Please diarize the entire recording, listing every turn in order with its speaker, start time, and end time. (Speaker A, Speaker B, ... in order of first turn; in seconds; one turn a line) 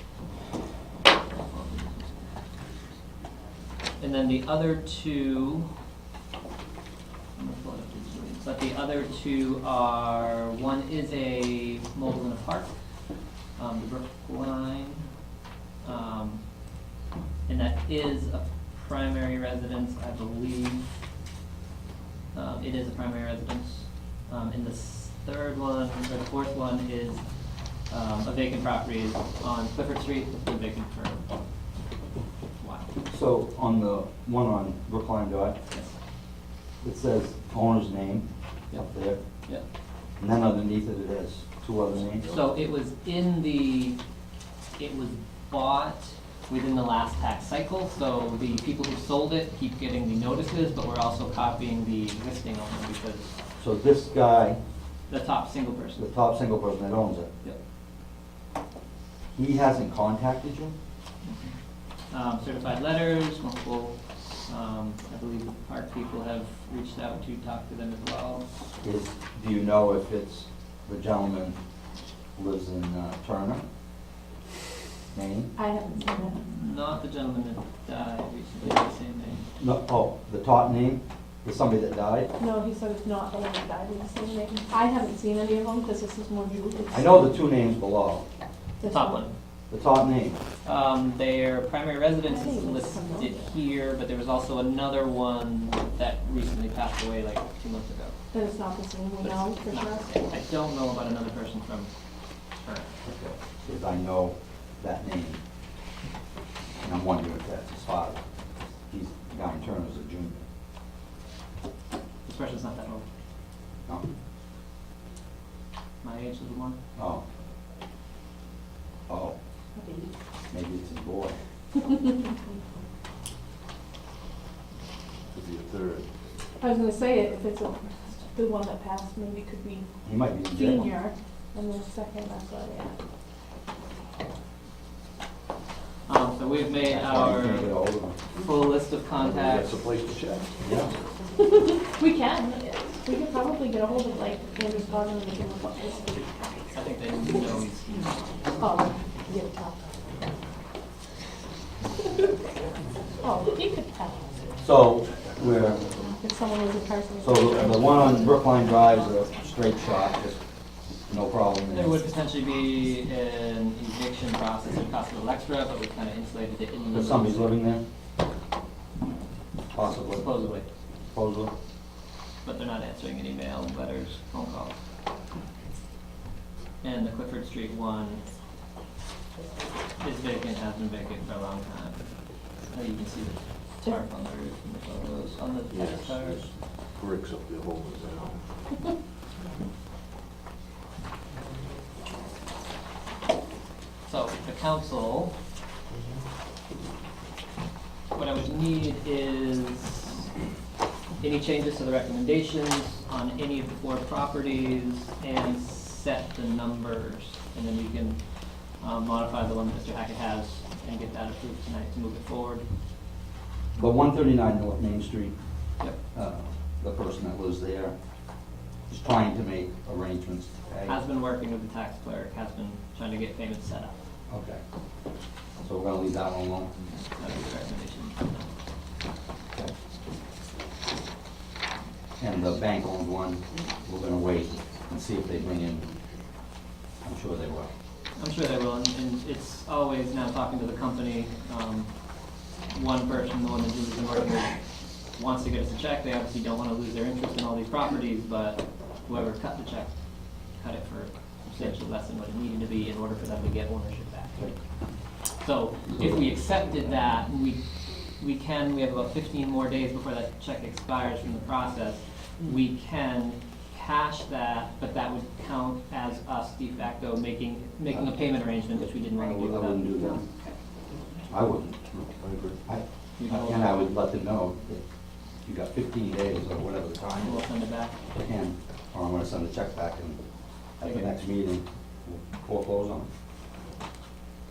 Speaker A: 1.3-2.3
Speaker A: 4.0-5.7
Speaker A: 7.4-12.7
Speaker A: 13.6-15.1
Speaker A: 15.8-16.4
Speaker A: 17.5-20.9
Speaker A: 22.3-27.2
Speaker A: 27.9-31.3
Speaker A: 32.6-32.9
Speaker B: 33.1-35.6
Speaker B: 36.8-38.2
Speaker B: 38.8-39.2
Speaker B: 40.2-42.3
Speaker A: 42.3-44.0
Speaker A: 44.8-53.3
Speaker B: 53.6-54.6
Speaker A: 55.1-56.1
Speaker B: 56.0-57.3
Speaker B: 59.4-60.7
Speaker A: 61.2-61.6
Speaker A: 62.1-68.5
Speaker B: 68.8-71.6
Speaker B: 72.4-73.6
Speaker B: 75.1-75.5
Speaker C: 75.6-76.4
Speaker A: 76.3-79.5
Speaker B: 79.6-82.3
Speaker C: 82.4-87.4
Speaker B: 86.9-88.2
Speaker C: 88.8-89.3
Speaker A: 88.9-89.3
Speaker B: 89.7-90.4
Speaker A: 90.7-98.1
Speaker C: 92.2-93.5
Speaker C: 98.3-100.4
Speaker A: 99.2-101.9
Speaker A: 102.5-103.0
Speaker B: 103.1-105.4
Speaker B: 106.8-108.2
Speaker B: 108.9-110.4
Speaker A: 112.3-113.0
Speaker A: 116.0-116.8
Speaker B: 117.0-117.2
Speaker B: 119.1-119.4
Speaker C: 119.8-120.1
Speaker B: 120.5-121.3
Speaker D: 125.3-126.1
Speaker C: 126.6-129.9
Speaker B: 130.1-130.9
Speaker C: 130.5-133.0
Speaker A: 136.1-139.9
Speaker B: 136.8-138.2
Speaker D: 139.2-140.5
Speaker B: 140.6-140.9
Speaker C: 141.3-146.4
Speaker A: 146.7-148.5
Speaker C: 148.6-149.8
Speaker C: 153.2-154.3
Speaker B: 154.6-155.8
Speaker C: 156.0-158.4
Speaker B: 157.2-160.4
Speaker B: 161.1-162.0
Speaker A: 161.7-167.6
Speaker B: 166.9-167.8
Speaker B: 169.7-170.3
Speaker A: 170.0-170.7
Speaker B: 171.1-171.5
Speaker A: 172.4-174.8
Speaker A: 176.8-178.3
Speaker A: 180.0-182.1
Speaker A: 182.7-186.6
Speaker D: 185.7-188.5
Speaker A: 194.1-195.4
Speaker A: 198.1-200.3
Speaker A: 201.2-208.2
Speaker A: 208.8-212.7
Speaker B: 213.8-215.3
Speaker B: 216.1-217.9
Speaker B: 218.9-221.0
Speaker A: 220.9-224.0
Speaker B: 224.3-224.6
Speaker B: 225.6-226.7
Speaker A: 227.2-228.5
Speaker B: 232.2-235.9
Speaker B: 237.0-237.7
Speaker A: 238.2-241.9
Speaker A: 242.7-249.9
Speaker A: 250.6-254.6
Speaker A: 255.3-270.5
Speaker B: 268.8-270.3
Speaker B: 271.3-271.9
Speaker D: 271.9-272.6
Speaker B: 272.6-274.8
Speaker A: 273.2-273.8
Speaker B: 275.4-277.4
Speaker A: 277.2-278.0
Speaker B: 278.1-280.2
Speaker B: 280.8-283.1
Speaker A: 280.8-281.1